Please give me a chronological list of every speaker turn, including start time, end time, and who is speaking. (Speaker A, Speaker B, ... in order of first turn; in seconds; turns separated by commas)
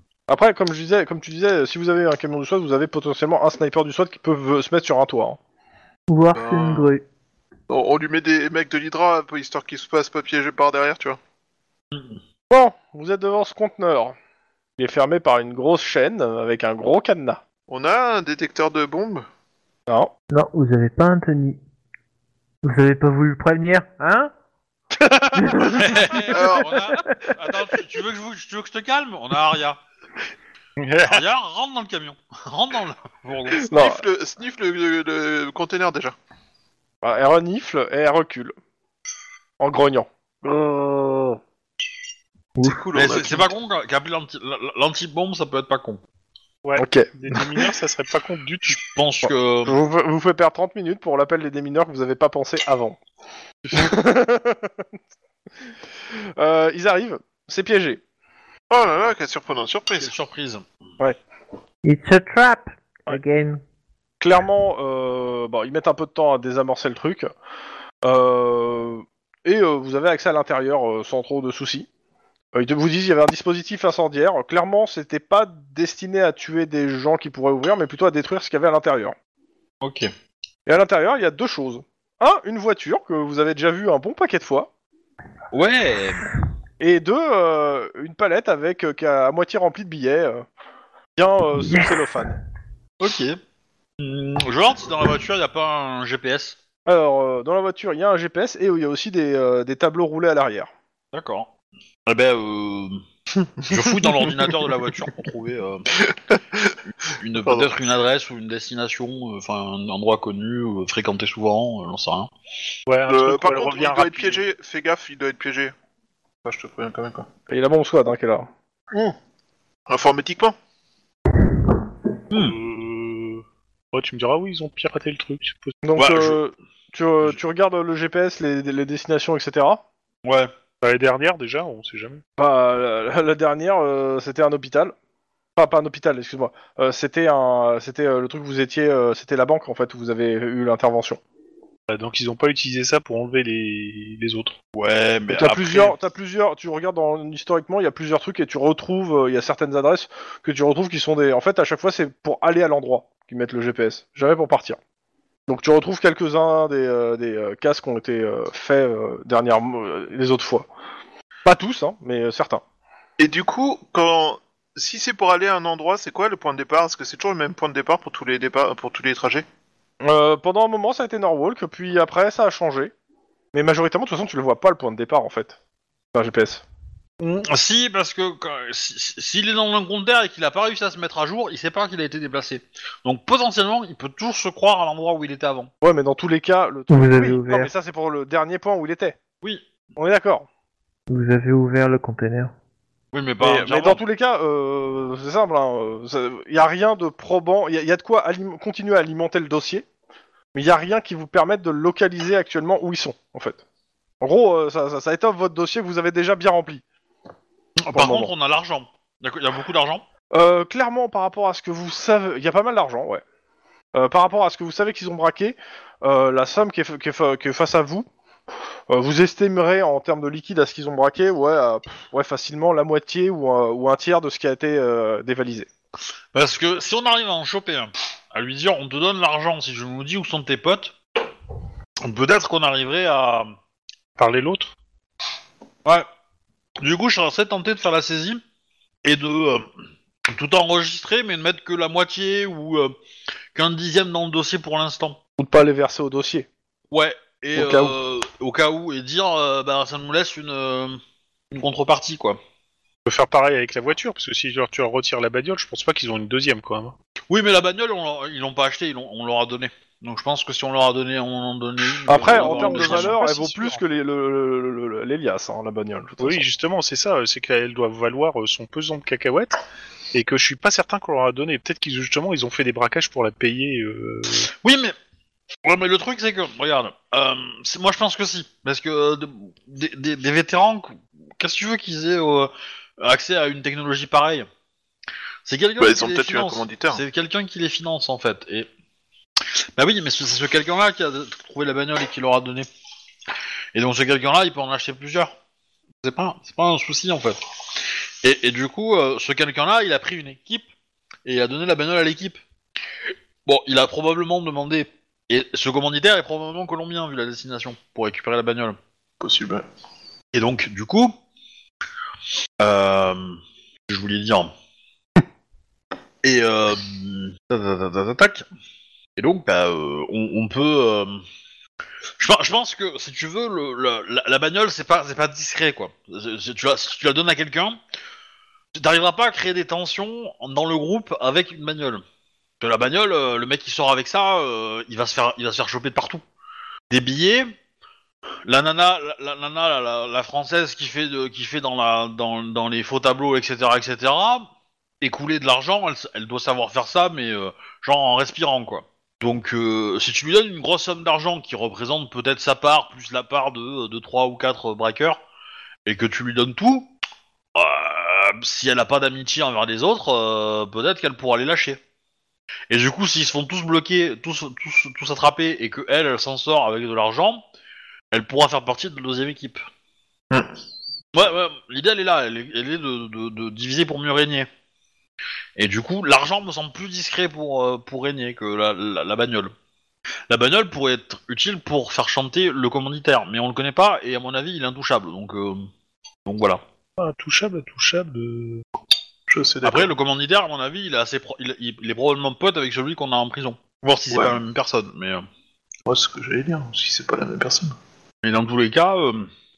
Speaker A: 0.3-5.4, Speaker B: 6.1-7.0, Speaker C: 6.3-6.9, Speaker C: 7.7-11.2, Speaker A: 12.5-14.1, Speaker A: 14.8-17.4, Speaker C: 17.7-19.2, Speaker B: 20.3-21.6, Speaker B: 22.6-24.3, Speaker A: 25.0-25.7, Speaker B: 25.4-26.3, Speaker D: 25.6-29.8, Speaker C: 26.3-26.8, Speaker B: 27.0-27.3, Speaker E: 30.8-31.2, Speaker D: 31.1-33.6, Speaker A: 33.7-34.0, Speaker C: 33.7-36.1, Speaker A: 37.0-38.5, Speaker A: 39.6-41.1, Speaker C: 42.6-43.5, Speaker D: 42.9-46.0, Speaker E: 46.6-48.8, Speaker A: 46.8-47.6, Speaker D: 48.7-49.8, Speaker A: 49.2-53.0, Speaker A: 53.7-54.8, Speaker A: 56.1-58.0, Speaker C: 58.7-60.1, Speaker D: 60.0-60.6, Speaker B: 61.8-63.6, Speaker A: 64.2-67.3, Speaker A: 68.0-71.9, Speaker A: 72.5-79.1, Speaker D: 79.8-80.1, Speaker A: 80.7-84.7, Speaker D: 85.5-86.3, Speaker A: 86.8-90.4, Speaker A: 91.2-92.3, Speaker D: 93.0-93.4, Speaker D: 94.0-96.6, Speaker A: 96.8-100.7, Speaker D: 101.1-101.5, Speaker D: 102.0-103.0, Speaker D: 103.7-105.9, Speaker C: 106.0-106.7, Speaker D: 107.1-112.3, Speaker C: 107.4-107.7, Speaker E: 112.9-114.4, Speaker C: 113.1-115.7, Speaker C: 116.4-117.3, Speaker A: 117.5-118.5, Speaker C: 119.9-120.5, Speaker D: 122.3-122.5, Speaker E: 122.3-125.7, Speaker A: 125.8-129.8, Speaker D: 126.0-126.4, Speaker D: 130.2-130.5, Speaker E: 130.8-132.2, Speaker A: 132.4-134.9, Speaker A: 135.6-141.2, Speaker E: 141.9-144.5, Speaker D: 144.7-145.9, Speaker A: 145.3-154.8, Speaker A: 155.5-160.7, Speaker A: 161.4-162.6, Speaker C: 163.2-169.4, Speaker A: 170.0-172.9, Speaker A: 173.5-175.6, Speaker A: 176.1-176.6, Speaker D: 177.2-185.7, Speaker A: 185.8-189.2, Speaker B: 186.9-187.7, Speaker D: 189.4-189.7, Speaker A: 189.9-190.5, Speaker B: 191.1-192.5, Speaker D: 193.1-194.0, Speaker A: 193.4-199.8, Speaker A: 200.5-203.6, Speaker A: 204.2-206.8, Speaker D: 207.8-210.1, Speaker A: 207.9-208.3, Speaker A: 210.3-213.2, Speaker A: 213.9-218.1, Speaker A: 218.9-225.7, Speaker D: 226.3-230.9, Speaker D: 232.0-233.5, Speaker E: 234.2-234.7, Speaker D: 236.8-238.4, Speaker D: 239.0-239.7, Speaker D: 240.3-242.9, Speaker D: 243.5-245.2, Speaker A: 245.4-246.5, Speaker D: 246.9-251.0, Speaker A: 247.6-247.9, Speaker D: 251.5-252.4, Speaker E: 253.1-256.9, Speaker D: 257.3-263.7, Speaker A: 262.1-266.4, Speaker E: 262.3-263.6, Speaker E: 266.2-269.6, Speaker E: 270.1-274.5, Speaker D: 274.6-274.9, Speaker D: 275.6-284.5, Speaker D: 285.4-288.7, Speaker C: 285.8-287.0, Speaker D: 289.8-292.7, Speaker D: 293.7-295.4, Speaker D: 296.0-300.7, Speaker D: 301.2-302.4, Speaker D: 303.4-308.8, Speaker C: 309.2-309.6, Speaker D: 310.3-311.1, Speaker D: 312.6-314.5, Speaker D: 316.2-318.4, Speaker D: 319.1-321.2, Speaker D: 322.2-327.8, Speaker D: 328.7-332.0, Speaker D: 332.6-336.2, Speaker D: 336.9-337.5, Speaker D: 338.4-344.5, Speaker D: 345.0-355.2, Speaker D: 355.9-356.9, Speaker D: 357.5-361.8, Speaker D: 362.7-367.4, Speaker D: 368.1-369.6, Speaker D: 371.1-374.5, Speaker D: 375.6-379.5, Speaker D: 380.3-385.7, Speaker D: 386.2-386.6, Speaker E: 387.0-388.6, Speaker C: 389.3-389.9, Speaker D: 389.6-395.2, Speaker C: 394.1-394.4, Speaker C: 395.9-397.7, Speaker D: 398.2-399.3